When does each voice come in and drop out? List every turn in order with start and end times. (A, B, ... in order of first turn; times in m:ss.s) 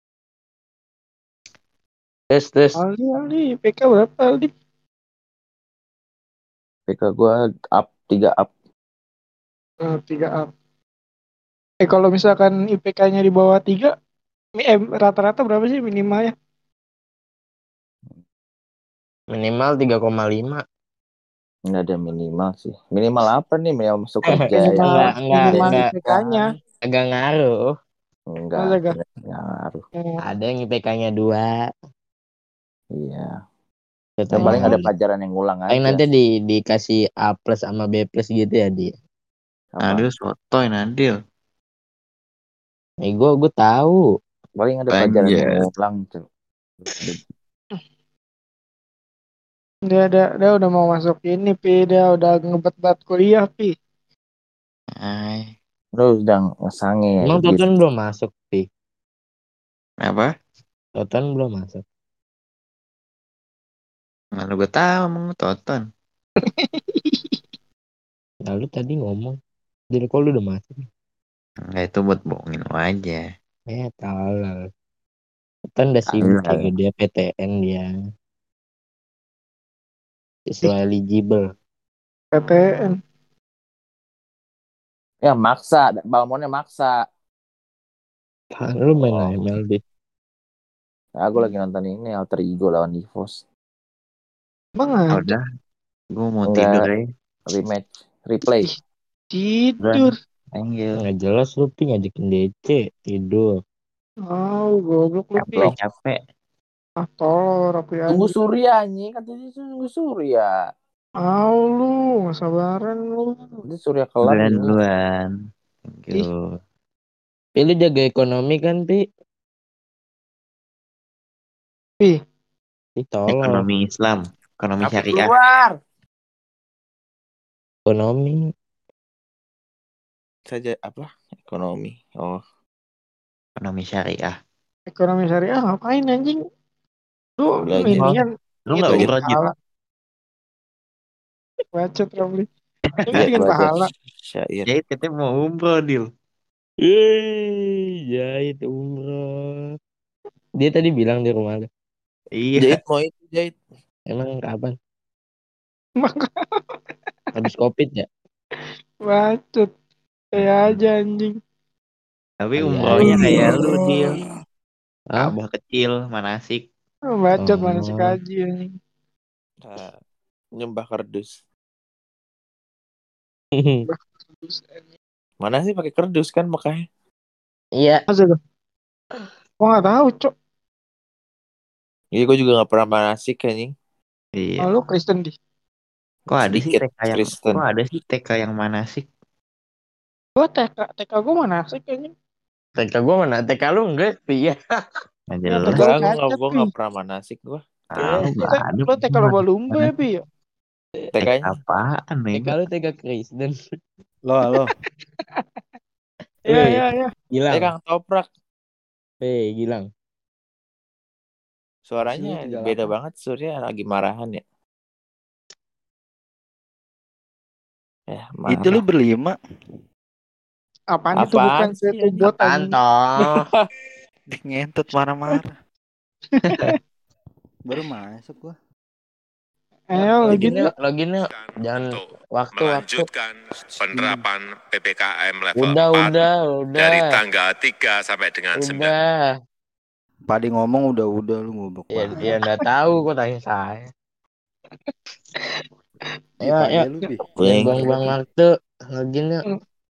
0:02.3-0:02.8 A
0:02.8-0:04.5 B
0:06.9-0:08.5 C
0:09.8-0:10.5 B
0:11.8-0:13.9 B
0:14.6-0:16.3 B
0:19.3-0:20.6 A
0:21.7-0:26.1 C
0:24.3-0:25.9 A
0:24.5-0:26.5 B
0:26.9-0:27.7 A
0:28.3-0:29.8 C
0:28.6-0:29.0 B
0:30.2-0:31.5 A
0:32.9-0:33.3 C
0:34.2-0:34.9 A
0:34.4-0:36.0 C
0:34.4-0:34.8 D
0:34.4-0:34.8 B
0:35.7-0:38.9 A
0:39.7-0:40.0 C
0:39.8-0:41.2 D
0:43.0-0:44.0 A
0:44.6-0:46.2 C
0:44.9-0:45.6 D
0:46.9-0:47.2 C
0:49.9-0:53.7 B
0:55.0-0:55.5 D
0:55.9-0:57.6 C
0:57.2-0:58.6 A
1:00.0-1:00.3 D
1:01.0-1:01.8 A
1:04.4-1:05.8 D
1:06.5-1:07.3 B
1:08.4-1:09.3 A
1:10.0-1:10.8 A
1:11.6-1:13.2 D
1:13.7-1:14.6 A
1:15.7-1:17.9 A
1:16.1-1:16.7 D
1:20.5-1:21.5 A
1:22.3-1:23.0 B
1:25.2-1:26.9 C
1:28.6-1:29.8 A
1:29.0-1:29.3 C
1:31.2-1:33.4 C
1:34.8-1:35.3 B
1:35.1-1:35.4 D
1:36.1-1:37.0 D
1:36.5-1:36.9 C
1:37.5-1:38.7 C
1:39.3-1:40.1 B
1:39.8-1:41.0 D
1:41.0-1:43.5 A
1:44.3-1:45.7 B
1:45.4-1:46.2 D
1:47.0-1:48.3 B
1:48.1-1:50.5 C
1:51.2-1:53.6 B
1:53.6-1:54.8 C
1:54.2-1:55.3 D
1:55.9-1:56.6 D
1:57.6-1:59.0 A
2:03.0-2:03.6 A
2:03.3-2:05.3 D
2:04.8-2:05.8 C
2:07.9-2:08.4 A
2:10.5-2:12.4 C
2:13.6-2:14.3 D
2:14.9-2:16.4 B
2:17.4-2:19.5 B
2:17.7-2:18.2 C
2:17.8-2:18.1 D
2:18.7-2:19.5 D
2:18.8-2:19.1 C
2:21.7-2:22.5 B
2:23.0-2:23.9 B
2:23.1-2:23.4 D
2:23.2-2:24.7 C
2:24.7-2:26.0 D
2:26.8-2:29.7 A
2:30.6-2:31.7 A
2:32.4-2:32.8 D
2:32.6-2:33.6 C
2:34.1-2:34.7 A
2:36.0-2:36.3 B
2:37.4-2:38.1 A
2:39.0-2:39.7 B
2:40.4-2:41.3 B
2:42.4-2:44.1 D
2:42.6-2:43.6 A
2:43.0-2:44.1 C
2:45.2-2:46.6 D
2:47.1-2:48.7 B
2:47.4-2:48.2 A
2:49.6-2:50.0 C
2:50.5-2:51.3 C
2:53.6-2:53.8 A
2:53.9-2:54.8 B
2:55.4-2:56.8 C
2:57.8-2:58.0 A
2:58.1-2:58.4 B
2:59.6-3:00.3 B
3:02.1-3:03.7 C
3:04.4-3:04.7 D
3:04.6-3:05.3 B
3:06.3-3:09.1 D
3:06.5-3:07.6 C
3:10.4-3:12.1 B
3:12.8-3:14.6 A
3:15.3-3:15.8 D
3:15.5-3:16.7 B
3:15.7-3:18.3 C
3:17.9-3:19.8 D
3:18.4-3:20.2 B
3:21.1-3:21.6 C
3:21.2-3:22.5 D
3:22.3-3:23.6 A
3:24.2-3:24.7 E
3:26.5-3:27.7 A
3:26.5-3:27.1 B
3:27.5-3:28.3 C
3:29.2-3:29.9 A
3:31.9-3:34.4 C
3:32.0-3:32.9 E
3:38.1-3:38.8 C
3:38.5-3:39.4 E
3:40.9-3:42.7 B
3:41.2-3:42.3 C
3:42.2-3:43.5 A
3:43.2-3:43.7 C
3:44.3-3:45.5 E
3:46.4-3:46.8 B
3:47.6-3:48.5 E
3:49.9-3:50.7 B
3:50.3-3:53.0 A
3:51.3-3:58.9 F
3:53.9-3:54.2 E
3:55.6-3:57.1 A
3:58.6-3:59.2 A
4:00.3-4:02.3 E
4:01.9-4:03.9 A
4:06.4-4:06.9 A
4:06.4-4:08.1 E
4:07.4-4:08.0 C
4:07.4-4:09.4 A